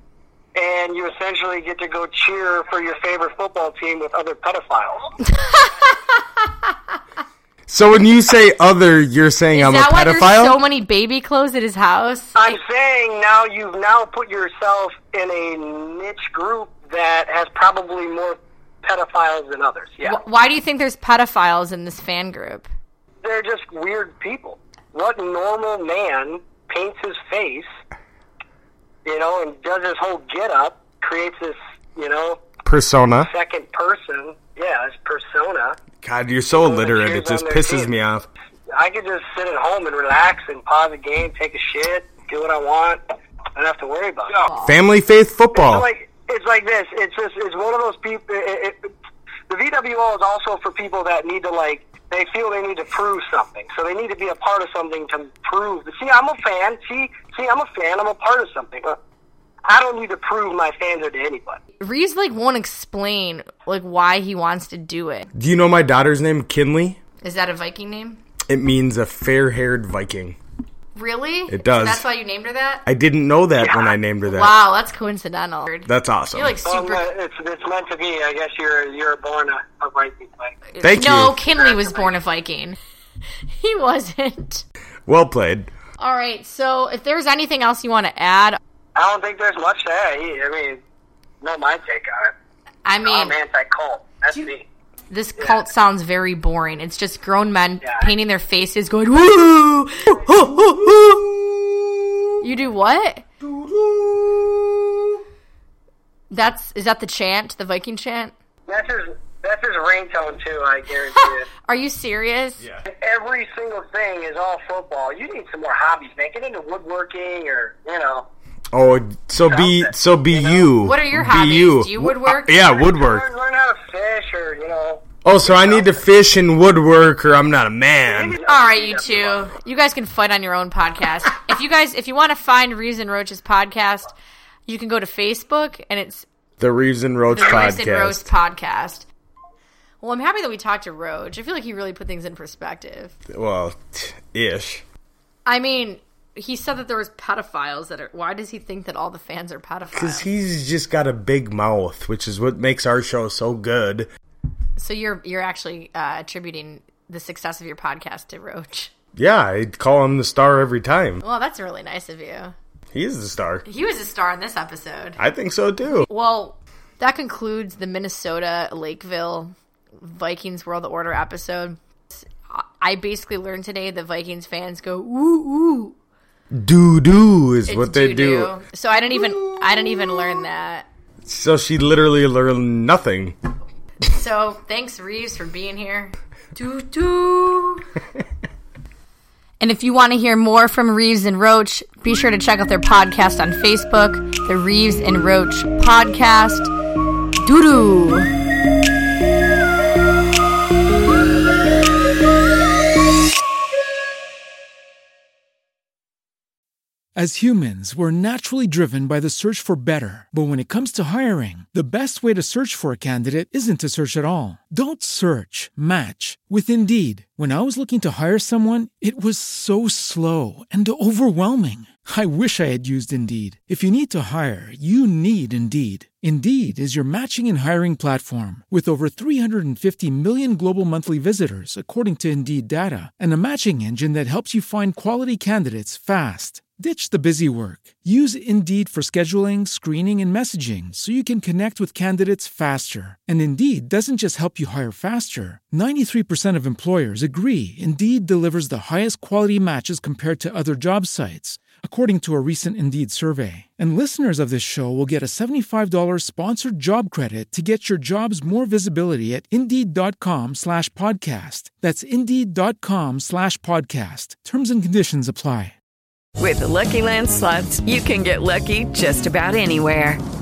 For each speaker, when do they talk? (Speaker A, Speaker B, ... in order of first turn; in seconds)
Speaker A: 0.6-5.0, 12.4-20.2, 23.2-27.7, 29.1-32.4, 33.2-35.8, 36.5-38.0, 38.7-43.0, 43.6-44.4, 45.5-48.9, 49.5-59.0, 59.6-61.6, 73.6-74.0, 76.7-80.5, 81.5-82.2, 89.0-90.8, 91.4-92.3, 93.0-94.6, 95.4-95.6, 97.8-98.1, 108.7-111.5, 112.9-118.3, 119.5-120.6, 122.8-126.0, 128.1-129.5
Speaker B: 5.3-6.7, 9.5-12.5, 20.0-22.7, 44.4-44.8, 61.8-65.3, 67.2-68.2, 71.0-72.8, 74.3-77.1, 80.7-82.8, 83.5-84.7, 86.0-88.6, 92.8-93.4, 95.1-101.2, 102.4-103.3, 106.3-108.3, 111.2-112.6, 120.8-122.9, 128.4-134.2, 134.7-136.2, 137.3-139.1, 140.0-143.2, 145.5-150.3, 154.8-158.9, 161.2-162.6, 163.7-165.2, 165.9-176.0, 177.7-180.9, 184.1-187.9, 189.6-196.7, 197.4-198.3
Speaker C: 7.7-10.6, 32.6-33.3, 36.0-38.3, 44.6-45.9, 65.3-67.0, 68.5-70.4, 71.5-72.1, 72.9-74.6, 75.9-76.6, 80.8-81.4, 85.1-85.7, 118.7-123.3, 125.2-128.4, 136.6-138.3, 143.3-144.8, 149.9-154.1, 159.2-161.2, 162.9-163.7, 165.2-166.1, 176.5-178.6, 181.2-183.4
Speaker D: 207.2-265.7
Speaker E: 266.4-270.2